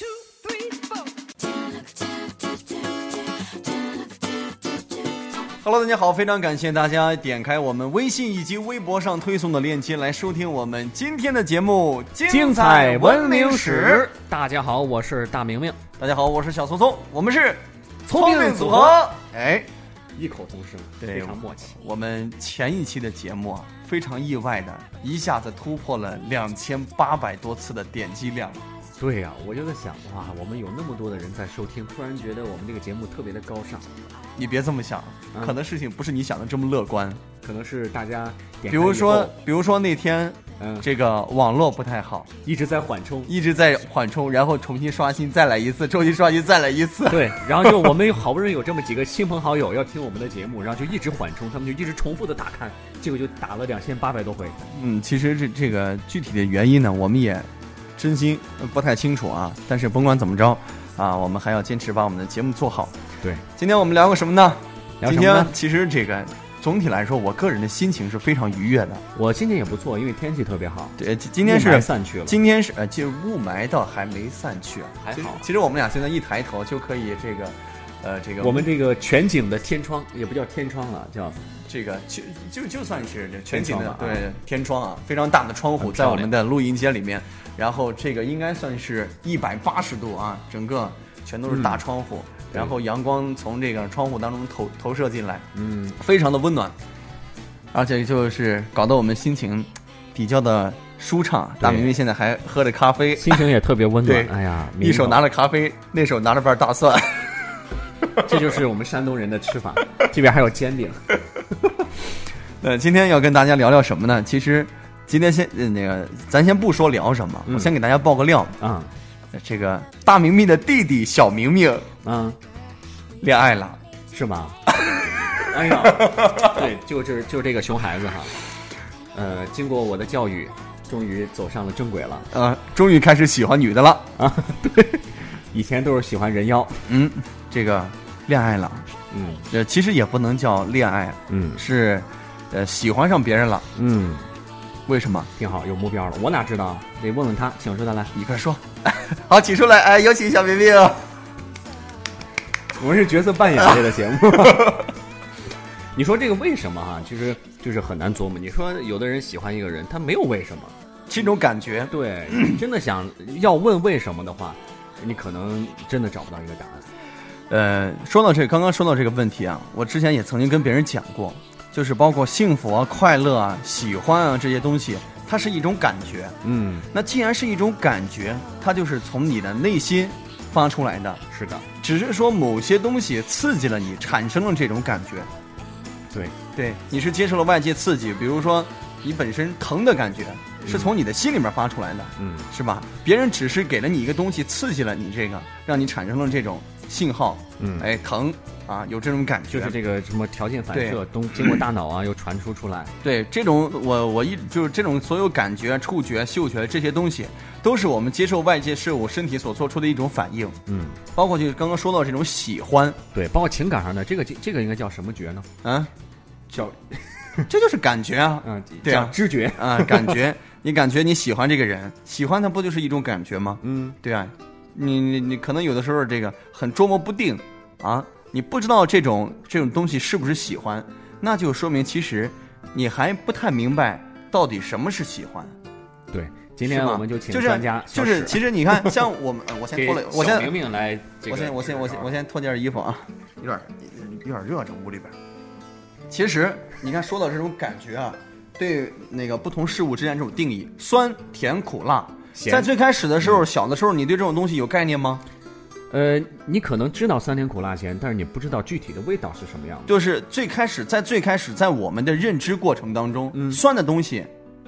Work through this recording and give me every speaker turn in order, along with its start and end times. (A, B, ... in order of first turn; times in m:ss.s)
0:05.6-0:14.0 A
0:12.3-0:15.8 B
0:16.0-0:19.7 A
0:18.1-0:19.1 B
0:20.2-0:21.8 B
0:21.0-0:28.6 A
0:29.0-0:33.9 B
0:34.4-0:37.2 A
0:37.4-0:39.4 B
0:38.7-0:42.3 A
0:40.6-0:40.9 B
0:42.4-0:43.3 B
0:43.3-0:48.0 A
0:47.1-0:54.6 B
0:54.6-1:02.9 A
1:03.6-1:09.0 A
1:05.0-1:05.5 B
1:09.1-1:12.4 B
1:11.0-1:18.7 A
1:15.0-1:15.5 B
1:18.4-1:21.4 B
1:21.7-1:36.8 A
1:23.5-1:24.3 B
1:25.8-1:26.3 B
1:31.5-1:31.8 B
1:35.5-1:36.0 B
1:37.7-1:43.5 A
1:41.6-1:42.0 B
1:43.2-1:45.2 B
1:44.0-1:47.5 A
1:48.2-1:51.2 B
1:52.6-1:58.5 A
1:57.5-1:57.7 B
1:58.6-1:58.9 B
1:59.3-2:01.9 A
2:02.0-2:02.4 B
2:03.2-2:03.8 A
2:04.1-2:04.7 B
2:04.8-2:05.1 A
2:05.4-2:08.4 B
2:05.8-2:06.6 A
2:09.1-2:12.3 B
2:12.3-2:14.1 A
2:14.2-2:16.8 B
2:16.9-2:18.9 A
2:19.1-2:19.5 B
2:19.5-2:23.7 A
2:21.3-2:21.6 B
2:23.7-2:24.3 B
2:24.9-2:25.3 A
2:25.4-2:28.1 B
2:28.1-2:31.1 A
2:32.8-2:34.9 B
2:35.9-2:40.8 B
2:41.1-2:42.6 A
2:41.9-2:46.9 B
2:47.5-2:56.4 A
2:56.4-2:56.9 B
2:56.9-3:01.2 A
3:01.3-3:01.6 B
3:01.8-3:05.3 A
3:06.1-3:06.4 B
3:06.5-3:19.8 A
3:10.6-3:10.9 B
3:12.2-3:12.5 B
3:17.6-3:17.9 B
3:19.5-3:22.9 B
3:20.7-3:21.6 A
3:23.0-3:30.6 A
3:30.7-3:31.0 B
3:31.1-3:33.0 A
3:33.1-3:35.5 B
3:35.6-3:35.9 A
3:36.5-3:37.5 B
3:37.5-3:55.5 A
3:38.4-3:40.2 B
3:43.6-3:44.0 B
3:56.1-3:58.9 B
3:56.6-4:00.6 A
3:59.7-4:02.1 B
4:01.3-4:05.2 A
4:06.1-4:15.2 A
4:12.3-4:12.7 B
4:15.9-4:19.9 B
4:19.9-4:24.3 A
4:23.3-4:23.6 B